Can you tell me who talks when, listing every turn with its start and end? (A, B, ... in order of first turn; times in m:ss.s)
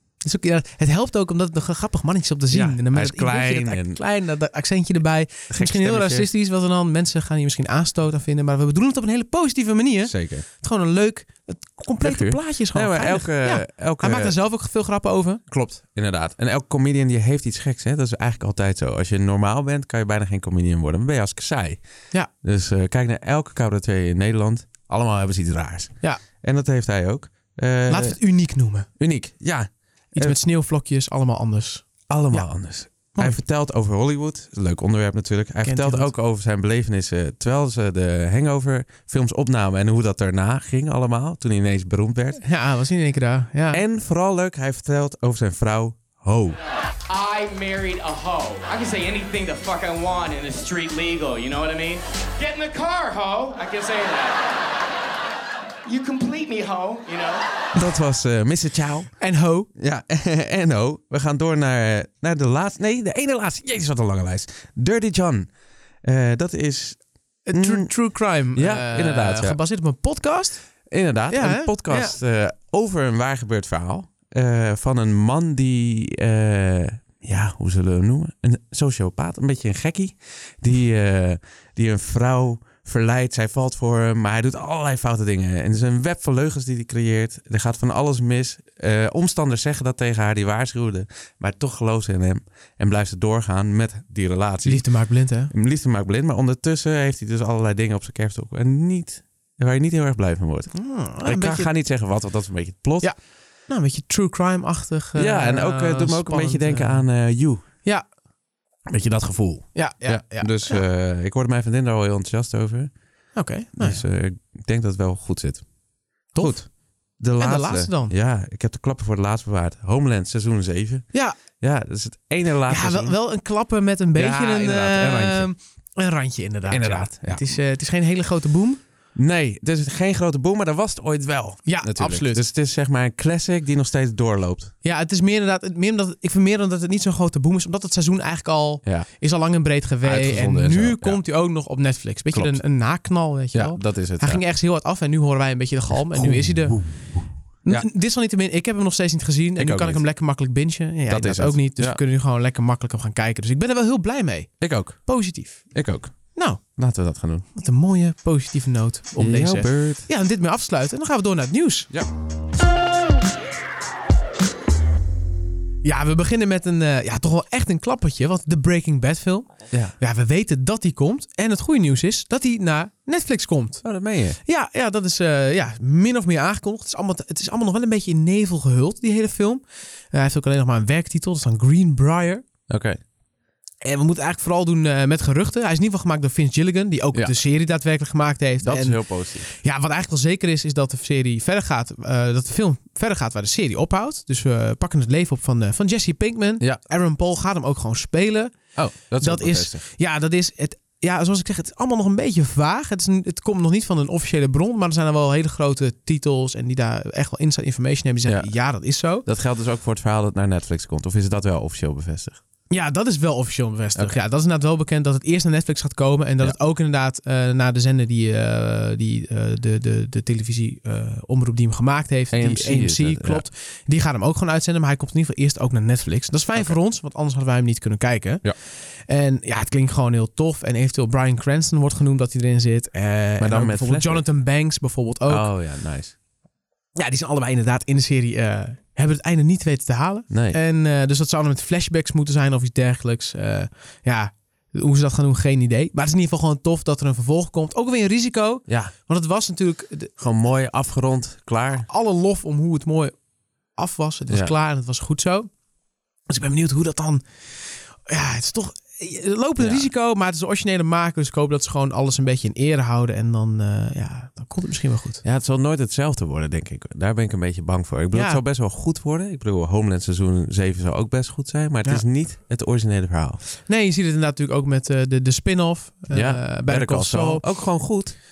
0:00.2-0:15.4 A
0:02.5-0:04.0 B
0:05.5-0:06.3 B
0:10.1-0:10.4 B
0:12.0-0:14.4 B
0:15.5-0:21.8 B
0:22.4-0:28.2 B
0:27.9-0:28.9 A
0:29.0-0:30.4 B
0:30.1-0:32.5 A
0:32.1-0:42.4 B
0:33.1-0:33.4 A
0:35.6-0:36.1 A
0:42.4-0:43.8 A
0:43.7-0:46.6 B
0:47.1-0:54.5 C
0:55.8-0:57.6 C
0:57.8-0:59.1 B
0:59.2-0:59.7 A
0:59.8-1:05.5 B
1:06.0-1:07.0 B
1:07.5-1:10.6 A
1:07.5-1:07.9 B
1:08.6-1:09.6 B
1:10.9-1:34.8 B
1:11.3-1:12.2 A
1:34.6-1:35.5 A
1:35.5-1:43.1 B
1:40.7-1:41.7 A
1:43.7-1:47.0 A
1:45.2-1:47.6 B
1:48.9-1:52.9 B
1:49.8-1:50.8 A
1:53.4-1:54.0 A
1:53.8-1:55.6 B
1:56.4-2:01.1 B
1:57.4-1:58.1 A
2:01.1-2:01.4 A
2:01.6-2:03.2 B
2:02.7-2:08.8 A
2:04.2-2:05.5 B
2:06.7-2:07.6 B
2:09.2-2:14.7 B
2:11.7-2:12.4 A
2:14.8-2:26.8 A
2:20.0-2:21.2 B
2:22.3-2:22.6 B
2:23.5-2:24.4 B
2:26.1-2:27.9 B
2:27.7-2:35.6 A
2:29.6-2:30.0 B
2:31.1-2:32.0 B
2:34.6-2:35.1 B
2:35.7-2:36.1 B
2:36.4-2:36.6 A
2:36.8-2:37.4 B
2:37.6-2:41.9 A
2:39.2-2:40.1 B
2:45.8-2:53.8 A
2:53.8-2:54.4 B
2:54.4-3:02.4 A
3:02.7-3:03.0 B
3:03.8-3:18.6 A
3:08.6-3:09.5 B
3:18.8-3:19.8 B
3:19.2-3:29.3 A
3:28.3-3:28.5 B
3:29.2-3:32.4 B
3:32.7-3:48.4 A
3:42.3-3:43.4 B
3:49.1-3:55.5 A
3:53.4-3:54.2 B
3:55.3-3:56.2 B
3:57.0-4:10.1 A
4:00.3-4:00.6 B
4:08.7-4:08.9 B
4:10.2-4:11.9 B
4:11.8-4:13.1 A
4:13.8-4:15.5 A
4:14.3-4:14.5 B
4:16.3-4:17.2 A
4:18.0-4:25.2 A
4:19.6-4:19.9 B
4:25.2-4:33.4 B
4:28.1-4:28.4 A
4:33.6-4:37.4 A
4:36.1-4:38.2 B